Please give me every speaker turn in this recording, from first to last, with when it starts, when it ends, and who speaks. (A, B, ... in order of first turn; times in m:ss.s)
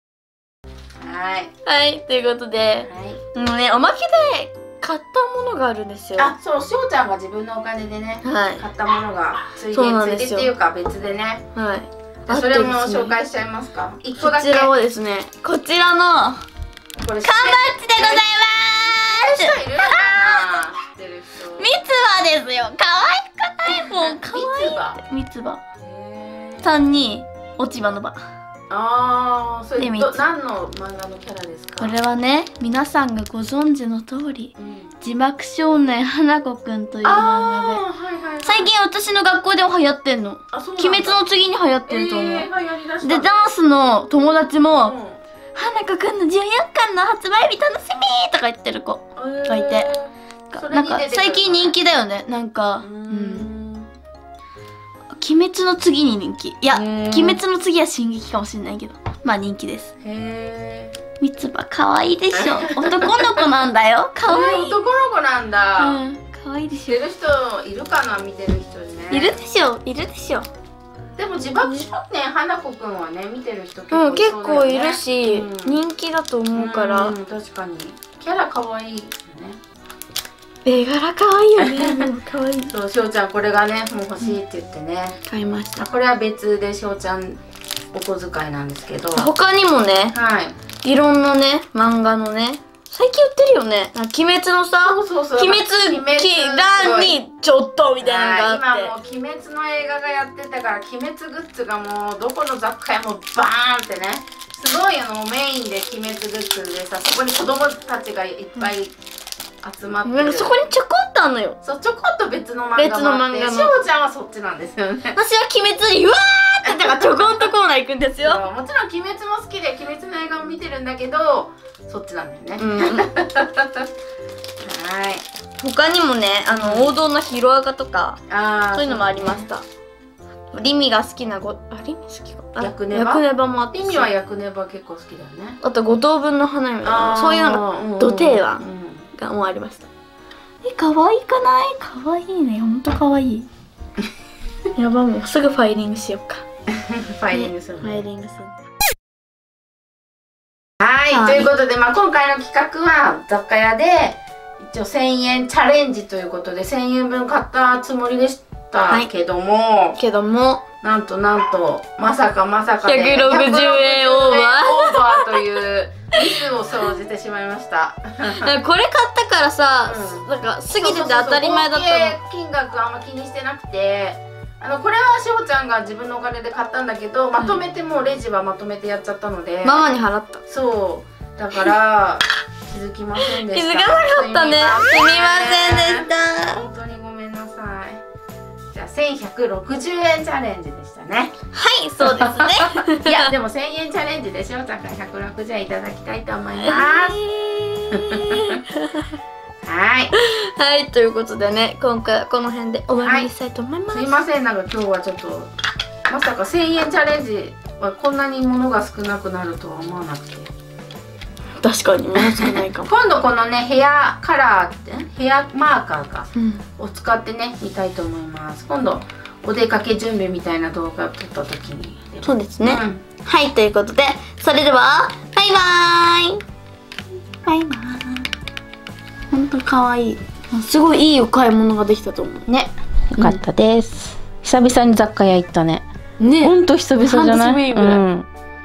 0:01.0-0:01.5 A
0:01.6-0:06.3 B
0:02.8-0:03.2 A
0:06.2-0:11.4 A
0:08.2-0:08.7 B
0:09.7-0:10.5 B
0:11.6-0:13.2 B
0:12.3-0:14.7 A
0:14.2-0:16.4 B
0:17.0-0:18.3 A
0:17.2-0:20.6 B
0:18.8-0:21.7 A
0:21.6-0:25.6 B
0:23.7-0:25.0 A
0:25.8-0:26.7 A
0:26.6-0:28.2 B
0:28.7-0:32.0 A
0:29.8-0:30.2 B
0:31.8-0:37.8 B
0:34.6-0:35.0 A
0:37.0-0:38.7 A
0:38.4-0:42.5 B
0:40.5-0:41.3 A
0:41.9-0:43.4 A
0:43.0-0:45.0 B
0:44.7-0:45.2 A
0:45.6-0:49.9 B
0:49.2-0:51.8 A
0:50.5-0:53.5 B
0:52.8-0:53.9 A
0:55.1-0:59.9 B
0:56.7-0:57.4 A
1:00.0-1:00.9 A
1:01.2-1:04.8 B
1:02.3-1:03.3 A
1:04.3-1:06.0 A
1:05.8-1:07.0 B
1:06.9-1:09.4 A
1:09.1-1:10.5 B
1:11.2-1:15.8 A
1:13.9-1:17.2 B
1:16.5-1:19.6 A
1:20.6-1:22.7 B
1:21.6-1:22.0 A
1:22.7-1:25.2 A
1:25.3-1:25.9 B
1:25.8-1:27.4 A
1:27.9-1:29.3 A
1:29.1-1:30.2 B
1:30.1-1:30.6 A
1:30.8-1:38.9 B
1:34.8-1:37.2 A
1:38.0-1:49.0 A
1:49.6-1:50.6 A
1:50.0-1:51.6 B
1:51.6-1:55.2 A
1:52.8-1:53.8 B
1:55.2-1:58.4 B
1:56.6-1:57.5 A
1:58.2-2:03.9 A
2:02.6-2:03.1 B
2:04.6-2:05.3 A
2:05.6-2:08.2 B
2:06.5-2:07.0 A
2:08.3-2:09.5 A
2:08.7-2:09.6 B
2:10.5-2:14.1 B
2:12.6-2:15.6 A
2:15.6-2:19.9 B
2:16.8-2:19.1 A
2:20.6-2:23.5 B
2:24.8-2:26.4 B
2:26.8-2:28.1 A
2:27.3-2:28.6 B
2:30.8-2:40.0 A
2:31.1-2:31.5 B
2:40.0-2:40.6 B
2:40.8-2:48.5 A
2:42.8-2:45.3 B
2:48.3-2:52.2 B
2:49.8-2:59.9 A
2:59.6-3:00.4 B
3:00.5-3:08.0 A
3:03.2-3:06.6 B
3:08.7-3:11.3 A
3:11.5-3:13.3 B
3:12.0-3:17.2 A
3:16.6-3:19.1 B
3:17.9-3:18.6 A
3:19.6-3:20.1 A
3:20.1-3:24.2 B
3:23.0-3:23.3 A
3:23.9-3:25.5 A
3:26.1-3:30.5 A
3:31.6-3:32.9 B
3:32.2-3:43.0 A
3:36.4-3:36.6 B
3:42.2-3:46.4 B
3:47.4-3:48.3 B
3:49.3-3:52.5 B
3:52.5-3:55.9 A
3:53.2-3:53.4 B
3:56.2-3:58.0 B
3:56.4-3:58.3 A